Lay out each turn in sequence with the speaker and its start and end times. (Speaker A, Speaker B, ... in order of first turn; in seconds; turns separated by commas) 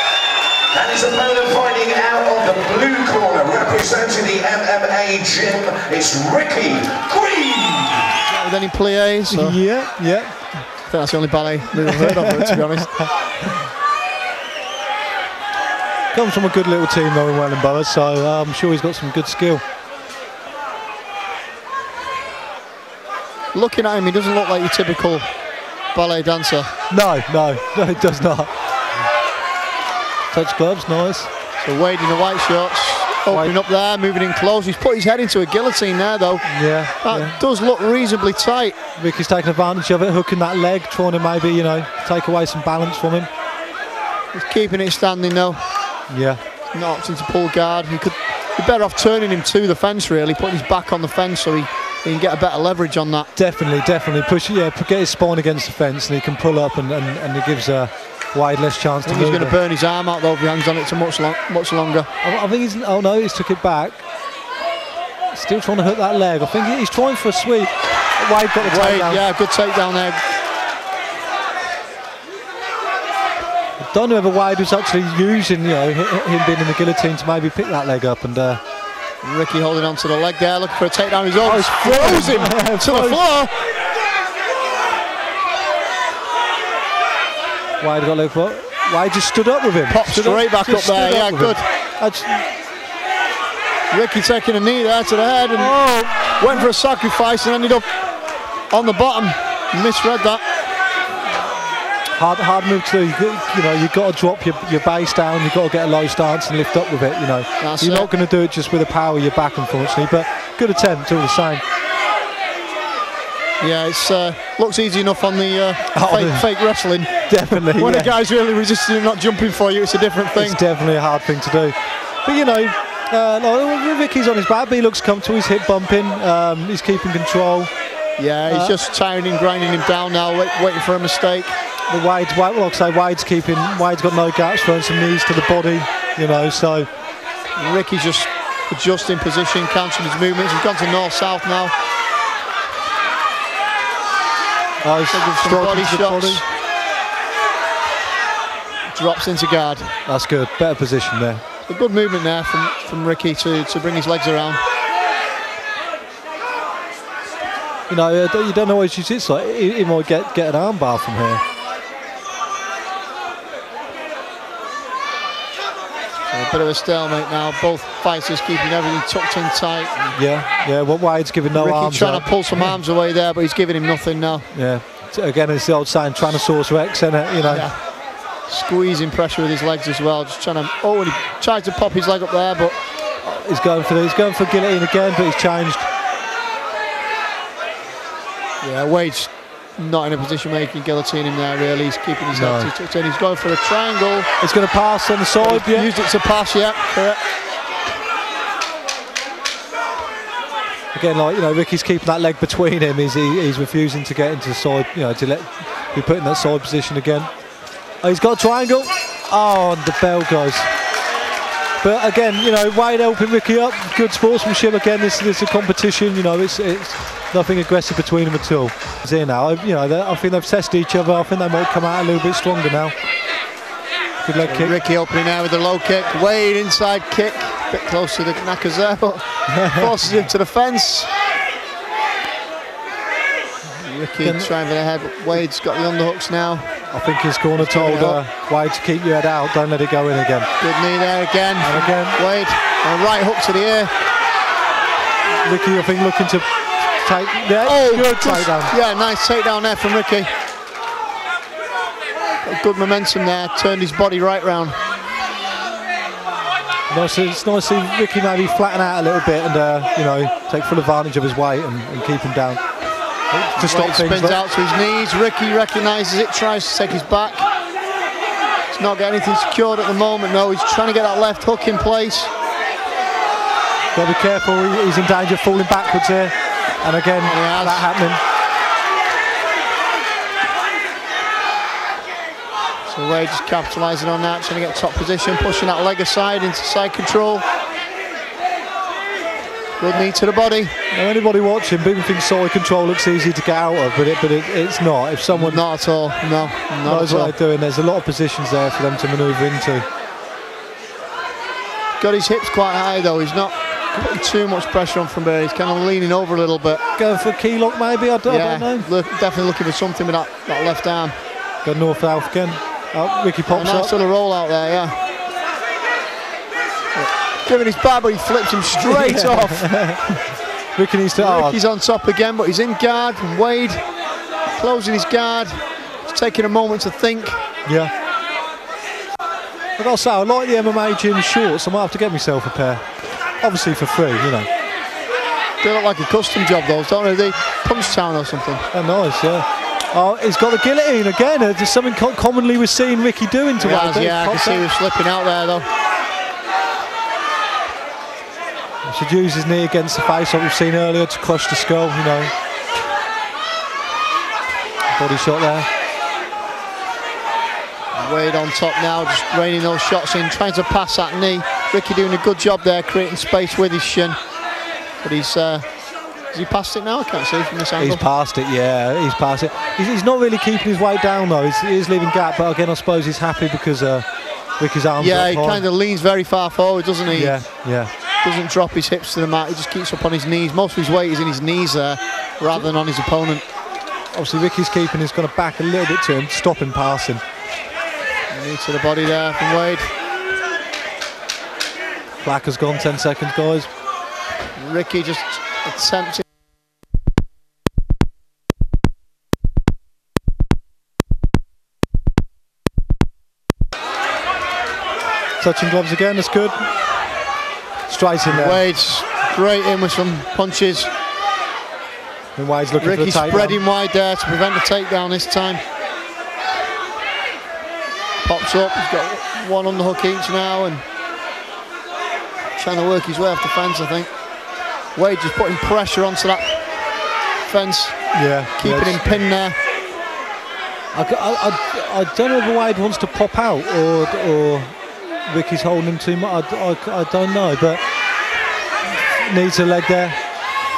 Speaker A: 0.7-8.1, Speaker B: 8.3-9.6, Speaker C: 9.3-10.6, Speaker B: 10.8-13.0, Speaker C: 16.1-19.6, Speaker B: 23.5-25.4, Speaker B: 25.9-26.7, Speaker C: 26.9-28.5, Speaker C: 30.3-31.3, Speaker B: 31.6-38.8, Speaker C: 36.4-37.4, Speaker C: 39.0-43.3, Speaker B: 44.3-45.6, Speaker C: 46.1-46.4, Speaker B: 46.7-53.3, Speaker C: 53.4-59.5, Speaker B: 59.0-62.1, Speaker C: 62.2-64.0, Speaker C: 65.3-69.2, Speaker B: 68.6-70.2, Speaker C: 73.8-78.6, Speaker B: 79.2-83.5, Speaker C: 81.4-83.2, Speaker C: 87.8-92.4, Speaker B: 89.9-91.7, Speaker B: 93.9-97.9, Speaker C: 95.5-96.7, Speaker B: 98.7-100.4, Speaker C: 102.1-111.6, Speaker B: 107.6-108.1, Speaker B: 113.6-120.6, Speaker C: 115.9-116.5, Speaker C: 117.3-118.1, Speaker C: 120.3-127.7, Speaker B: 128.2-131.5, Speaker C: 128.5-128.8, Speaker C: 131.9-136.9, Speaker B: 137.6-141.7, Speaker C: 144.8-146.4, Speaker B: 145.1-146.4, Speaker B: 148.9-149.9, Speaker C: 150.1-151.4, Speaker B: 151.7-154.6, Speaker C: 157.9-161.4, Speaker B: 166.3-170.2, Speaker C: 170.1-172.8, Speaker B: 171.5-174.5, Speaker C: 174.5-177.7, Speaker B: 177.4-182.8, Speaker C: 183.2-185.9, Speaker B: 188.6-194.3, Speaker C: 192.3-192.7, Speaker C: 194.4-195.9, Speaker B: 195.4-197.2, Speaker C: 200.9-207.3, Speaker C: 208.0-210.7, Speaker C: 211.8-222.9, Speaker C: 224.2-224.7, Speaker B: 224.4-231.1, Speaker C: 229.6-229.9, Speaker B: 233.8-236.8, Speaker C: 234.2-234.5, Speaker C: 236.9-240.5, Speaker B: 237.5-238.2, Speaker B: 240.6-243.9, Speaker C: 241.6-242.2, Speaker C: 245.4-248.7, Speaker B: 247.6-250.3, Speaker B: 252.4-254.8, Speaker C: 256.9-262.7, Speaker C: 263.3-264.4, Speaker B: 263.5-267.5, Speaker B: 268.7-272.3, Speaker C: 273.9-278.2, Speaker B: 277.2-277.9, Speaker B: 282.8-287.4, Speaker B: 289.8-290.7, Speaker C: 290.9-295.6, Speaker B: 295.3-297.4, Speaker C: 296.8-299.8, Speaker B: 302.0-306.8, Speaker C: 307.0-308.9, Speaker B: 308.2-311.2, Speaker C: 311.6-313.9, Speaker B: 313.5-315.0, Speaker B: 316.9-320.2, Speaker C: 318.8-319.9, Speaker C: 320.7-321.6, Speaker B: 321.1-323.9, Speaker B: 324.5-327.4, Speaker C: 327.6-327.9, Speaker C: 329.8-334.5, Speaker B: 335.6-338.6, Speaker C: 338.7-344.6, Speaker B: 343.6-345.7, Speaker C: 348.8-352.3, Speaker C: 354.9-355.7, Speaker B: 357.9-364.2, Speaker B: 365.0-368.0, Speaker C: 367.8-375.6, Speaker B: 375.0-383.4, Speaker C: 377.1-377.9, Speaker C: 384.1-387.2, Speaker B: 388.3-389.9, Speaker C: 392.2-393.7, Speaker B: 394.6-396.2, Speaker C: 405.4-406.7, Speaker C: 407.9-408.6, Speaker B: 408.3-410.9, Speaker C: 412.4-413.6, Speaker B: 412.8-415.6, Speaker B: 418.2-420.8, Speaker B: 422.5-424.3, Speaker B: 424.9-429.6, Speaker C: 428.1-429.2, Speaker C: 430.9-437.8, Speaker C: 439.2-440.1